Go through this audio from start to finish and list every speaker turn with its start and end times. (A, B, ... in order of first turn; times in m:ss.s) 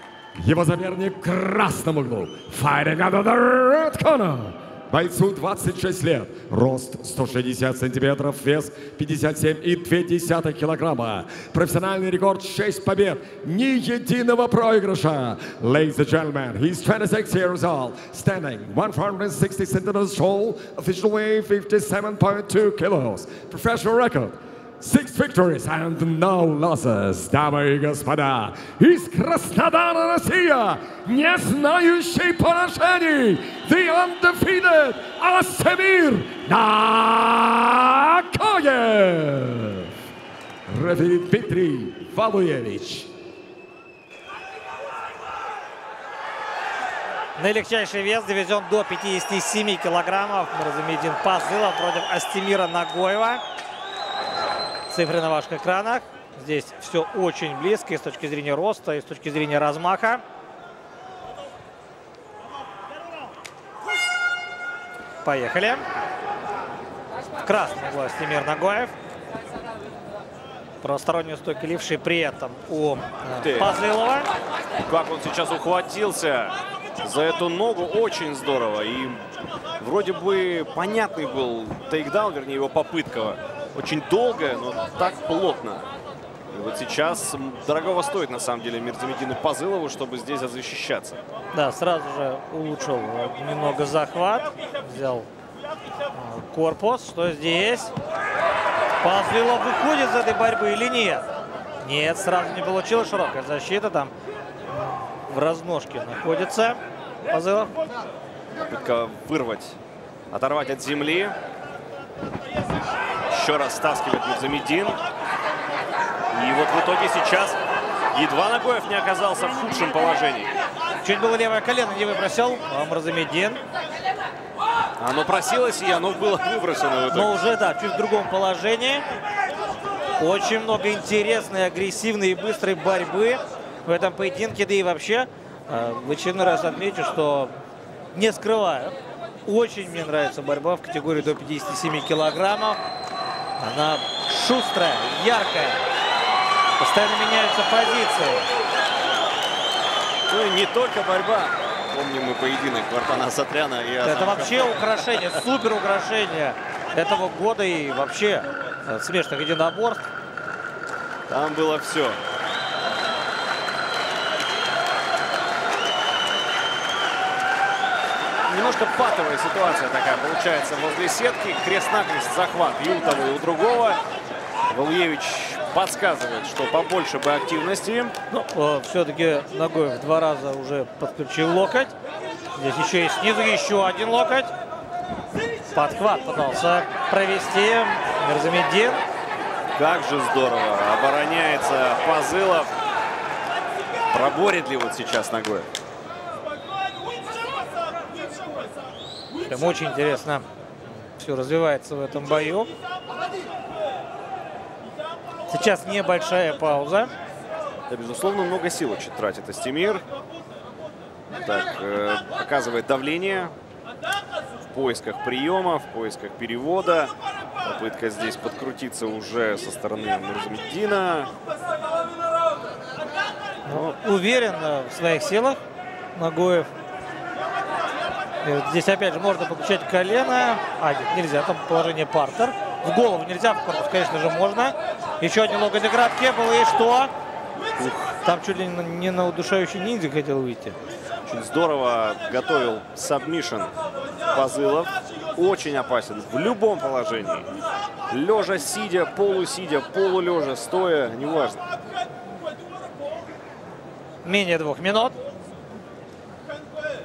0:00.4-0:39.9 A
0:40.7-0:43.1 A
0:47.4-0:53.4 B
0:54.9-1:00.2 B
1:05.2-1:05.8 B
1:07.4-1:08.9 B
1:10.8-1:14.3 B
1:13.3-1:13.7 C
1:14.8-1:19.2 C
1:19.8-1:25.9 C
1:26.5-1:31.2 C
1:31.5-1:35.3 B
1:36.1-1:37.9 B
1:39.0-1:41.2 B
1:41.8-1:44.1 B
1:44.7-1:47.8 B
1:48.7-1:49.8 C
1:50.3-1:51.3 C
1:53.3-1:55.0 C
1:56.3-1:57.6 C
1:58.1-2:00.5 C
2:01.0-2:03.6 B
2:05.0-2:07.4 C
2:07.1-2:09.0 B
2:10.2-2:17.5 B
2:18.1-2:22.8 B
2:23.6-2:25.8 B
2:26.8-2:28.4 B
2:30.3-2:35.4 C
2:34.0-2:40.0 B
2:41.3-2:42.2 C
2:48.4-2:54.0 C
2:54.7-2:58.1 C
2:58.3-3:01.9 B
3:02.5-3:04.5 B
3:05.7-3:09.0 B
3:09.7-3:12.7 C
3:14.1-3:15.7 C
3:19.5-3:20.4 B
3:21.0-3:22.7 B
3:25.5-3:27.1 B
3:27.9-3:30.0 C
3:31.4-3:33.5 C
3:34.7-3:41.3 C
3:43.6-3:45.6 B
3:43.7-3:44.0 C
3:46.1-3:46.7 B
3:48.4-3:57.1 B
3:57.8-3:58.1 C
3:58.2-4:00.8 B
4:01.3-4:03.7 C
4:04.3-4:07.5 C
4:08.1-4:11.6 C
4:14.2-4:15.2 B